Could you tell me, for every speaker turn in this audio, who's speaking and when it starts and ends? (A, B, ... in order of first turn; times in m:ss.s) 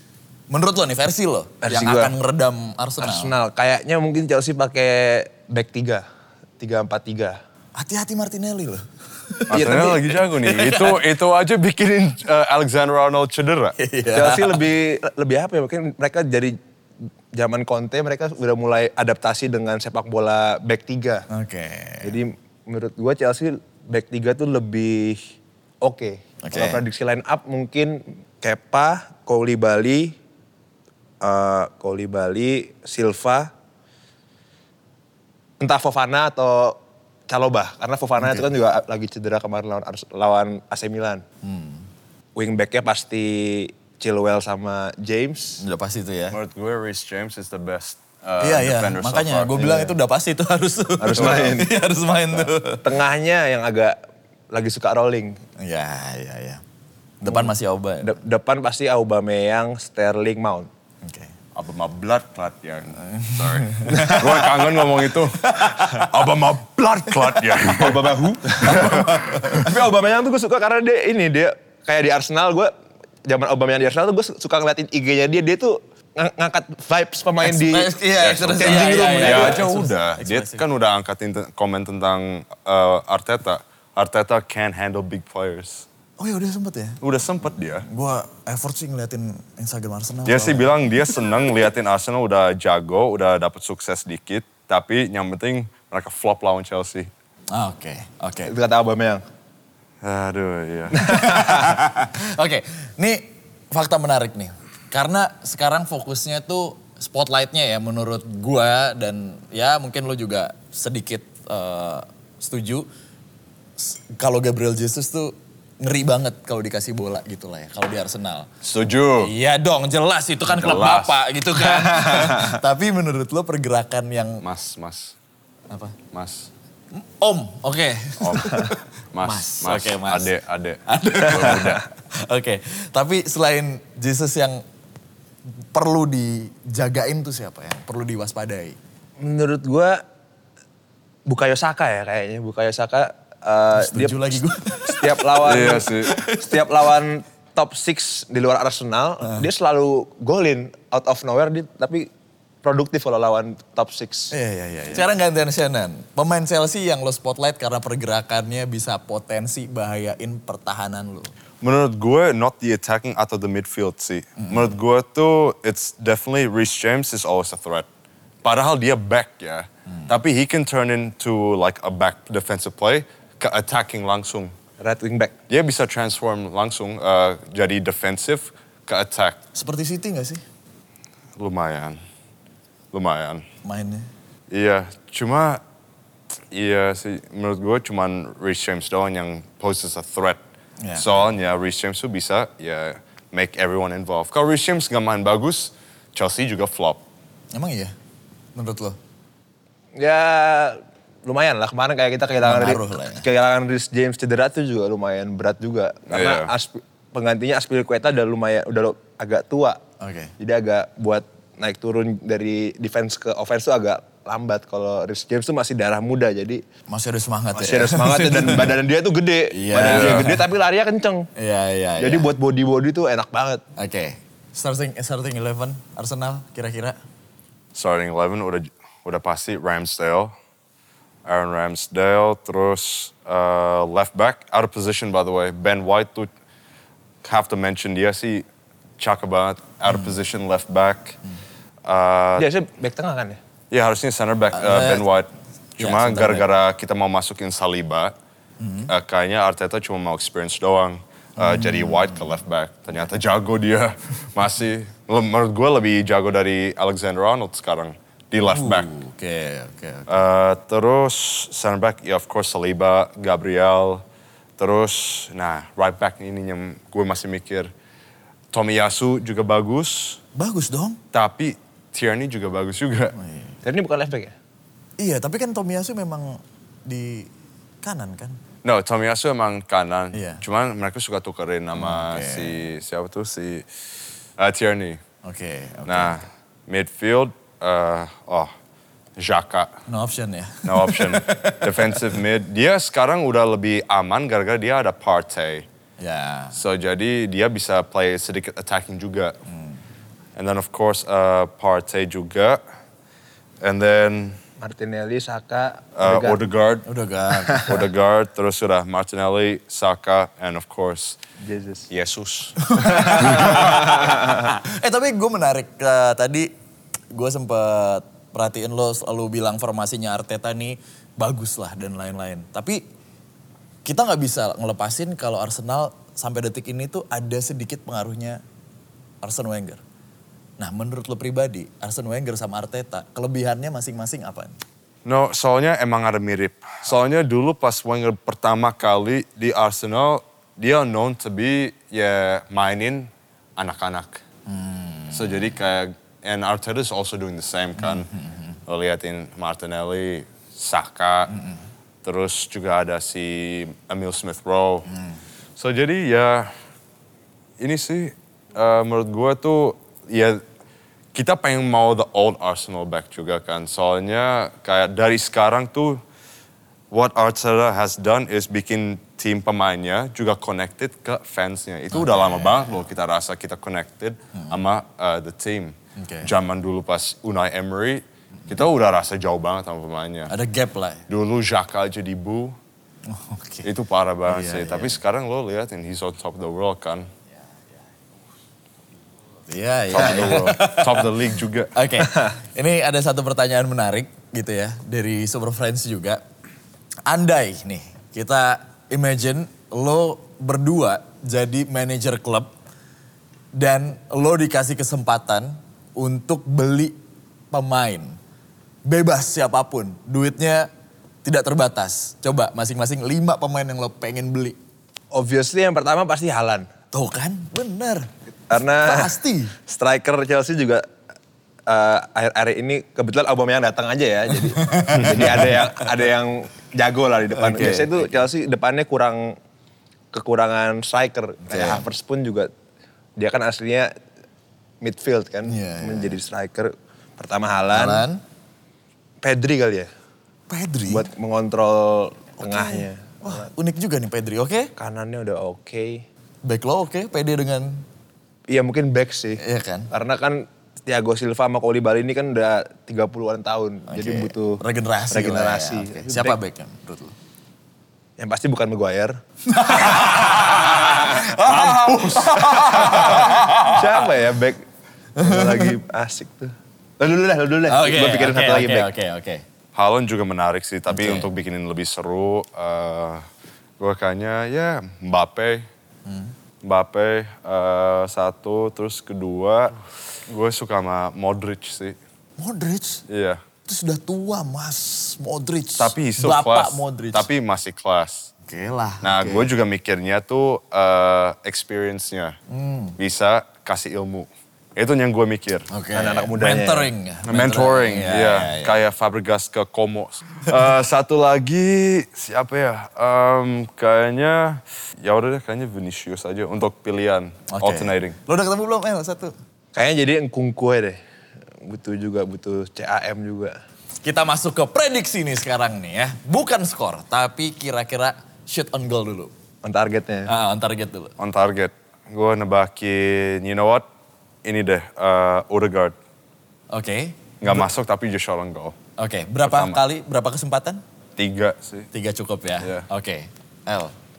0:00.5-0:03.3 A
0:01.6-0:02.1 B
0:03.0-0:06.0 B
0:06.6-0:07.4 B
0:07.8-0:11.0 A
0:09.5-0:13.8 C
0:09.5-0:10.0 B
0:13.8-0:14.6 A
0:14.1-0:16.6 B
0:17.3-0:21.3 B
0:21.3-0:22.2 A
0:22.0-0:25.2 B
0:25.8-0:30.2 B
0:26.4-0:26.8 A
0:31.2-0:33.5 B
0:35.6-0:36.8 B
0:37.3-0:41.2 B
0:38.2-0:38.5 A
0:41.4-0:41.9 A
0:42.4-0:45.6 B
0:45.6-0:46.4 A
0:46.3-0:49.5 C
0:48.4-0:52.9 A
0:49.6-0:49.9 B
0:51.0-0:51.7 B
0:51.2-0:51.5 C
0:52.3-0:54.0 B
0:54.5-0:55.4 B
0:55.6-0:56.6 A
0:57.2-0:58.2 A
0:58.0-1:00.7 B
1:01.0-1:01.3 A
1:01.6-1:09.6 C
1:03.0-1:04.2 A
1:03.9-1:04.5 B
1:05.4-1:06.1 A
1:07.7-1:12.7 B
1:08.6-1:09.7 A
1:13.2-1:19.6 B
1:17.4-1:20.6 A
1:18.2-1:25.9 C
1:26.2-1:27.0 A
1:27.0-1:27.9 C
1:27.8-1:31.3 A
1:30.3-1:37.1 C
1:37.5-1:38.5 A
1:38.5-1:39.2 B
1:40.0-1:41.2 C
1:41.0-1:41.7 B
1:41.1-1:52.9 A
1:53.8-1:58.5 A
1:58.6-1:59.3 C
1:59.2-2:04.4 A
2:00.5-2:01.2 C
2:01.8-2:02.6 B
2:04.4-2:05.2 C
2:05.7-2:06.0 A
2:06.1-2:06.5 C
2:07.0-2:10.3 A
2:08.2-2:08.6 C
2:09.1-2:11.8 C
2:10.9-2:14.6 A
2:15.7-2:18.8 A
2:19.2-2:20.0 B
2:21.3-2:32.1 B
2:23.8-2:26.9 A
2:25.4-2:26.1 C
2:32.6-2:34.3 B
2:34.3-2:41.3 A
2:41.6-2:47.9 C
2:48.4-2:54.5 C
2:54.8-2:55.3 B
2:55.5-2:59.4 C
2:59.6-3:00.4 A
3:01.4-3:02.0 C
3:02.9-3:03.4 C
3:03.6-3:04.1 A
3:04.5-3:05.6 C
3:06.5-3:10.4 C
3:10.8-3:11.1 A
3:11.0-3:17.0 C
3:17.5-3:17.9 A
3:18.6-3:19.0 A
3:20.0-3:29.8 B
3:22.4-3:23.2 A
3:26.1-3:26.5 C
3:30.0-3:30.3 A
3:30.4-3:36.6 B
3:36.9-3:38.8 A
3:37.6-3:41.3 B
3:39.5-3:40.4 A
3:39.9-3:40.3 C
3:41.4-3:42.3 A
3:42.0-3:43.6 B
3:43.8-3:47.0 A
3:47.8-3:50.3 C
3:51.2-3:56.3 C
3:57.2-3:58.5 C
3:59.0-4:01.2 C
4:01.9-4:02.5 C
4:02.4-4:03.4 B
4:03.7-4:08.1 C
4:04.5-4:05.1 A
4:05.8-4:06.5 A
4:08.6-4:08.9 A
4:08.9-4:18.9 C
4:11.4-4:12.2 A
4:18.4-4:20.1 A
4:20.1-4:24.0 C
4:24.6-4:27.7 C
4:28.5-4:30.2 C
4:30.4-4:31.0 A
4:31.1-4:33.2 C
4:33.2-4:33.5 A
4:33.6-4:34.3 B
4:35.0-4:37.3 A
4:37.8-4:38.4 A
4:38.6-4:43.7 C
4:40.1-4:40.4 A
4:41.8-4:42.6 A
4:44.4-4:45.0 C
4:45.2-4:46.2 A
4:45.9-4:48.5 C
4:49.2-4:49.8 C
4:49.9-4:52.1 A
4:50.6-4:55.7 C
4:56.0-4:56.6 A
4:56.5-4:59.4 C
5:00.4-5:02.6 C
5:03.6-5:04.4 C
5:04.6-5:06.4 B
5:06.0-5:06.9 C
5:06.9-5:07.8 A
5:07.6-5:11.2 C
5:11.4-5:11.9 B
5:11.9-5:13.7 C
5:12.6-5:16.5 A
5:13.9-5:14.1 B
5:17.1-5:22.8 A
5:23.8-5:28.4 A
5:29.2-5:29.8 A
5:30.6-5:34.6 A
5:35.0-5:44.2 C
5:44.5-5:45.4 A
5:45.1-5:48.1 C
5:47.8-5:48.3 A
5:48.7-5:51.3 C
5:51.3-5:51.6 A
5:52.0-5:54.9 C
5:55.6-5:56.5 C
5:57.6-6:00.4 C
6:01.1-6:06.0 C
6:06.9-6:20.3 C
6:11.9-6:12.6 A
6:14.3-6:14.6 A
6:16.0-6:16.3 A
6:20.3-6:21.0 A
6:21.1-6:22.6 C
6:23.1-6:23.7 A
6:23.6-6:27.1 C
6:24.3-6:25.0 A
6:29.5-6:31.2 A
6:29.9-6:31.7 C
6:31.7-6:36.2 A
6:37.1-6:42.5 A
6:43.6-6:47.0 A
6:47.5-6:48.2 A
6:48.9-6:50.7 A
6:51.2-6:54.6 A
6:55.1-6:56.7 B
6:56.9-6:58.1 A
6:58.5-7:00.8 B
6:58.8-6:59.6 A
7:01.7-7:09.4 B
7:04.3-7:05.8 A
7:07.4-7:08.1 A
7:10.1-7:12.5 B
7:11.5-7:11.8 A
7:13.2-7:13.9 B
7:14.8-7:18.1 B
7:15.5-7:16.2 A
7:17.7-7:18.2 A
7:19.2-7:19.9 B
7:20.5-7:21.1 A
7:20.9-7:23.5 B
7:22.4-7:24.7 A
7:24.8-7:26.0 B
7:26.4-7:27.8 A
7:28.5-7:36.4 B
7:29.4-7:29.9 A
7:33.9-7:37.2 A
7:38.2-7:39.2 B
7:39.5-7:43.8 A
7:39.8-7:41.3 B
7:41.6-7:41.9 C
7:42.4-7:44.6 B
7:45.2-7:45.7 A
7:45.2-7:48.9 B
7:47.7-7:49.4 A
7:49.8-7:53.2 C
7:50.9-7:51.3 A
7:53.8-7:55.7 C
7:56.1-7:56.3 A
7:56.6-8:02.0 C
8:02.4-8:03.0 A
8:03.1-8:03.4 C
8:03.7-8:07.3 A
8:05.8-8:08.3 C
8:08.5-8:09.5 A
8:09.0-8:12.4 C
8:12.5-8:13.0 A
8:13.0-8:15.7 C
8:15.7-8:18.8 A
8:15.9-8:16.9 B
8:17.2-8:28.2 C
8:27.5-8:29.4 A
8:29.8-8:31.0 B
8:31.6-8:33.6 B
8:34.0-8:39.3 A
8:39.6-8:40.3 B
8:40.3-8:41.1 A
8:41.2-8:43.9 C
8:44.4-8:46.0 C
8:46.7-8:47.6 A
8:47.4-8:48.8 C
8:49.0-8:50.8 A
8:49.4-8:49.8 C
8:51.2-8:51.9 C
8:51.9-8:53.9 A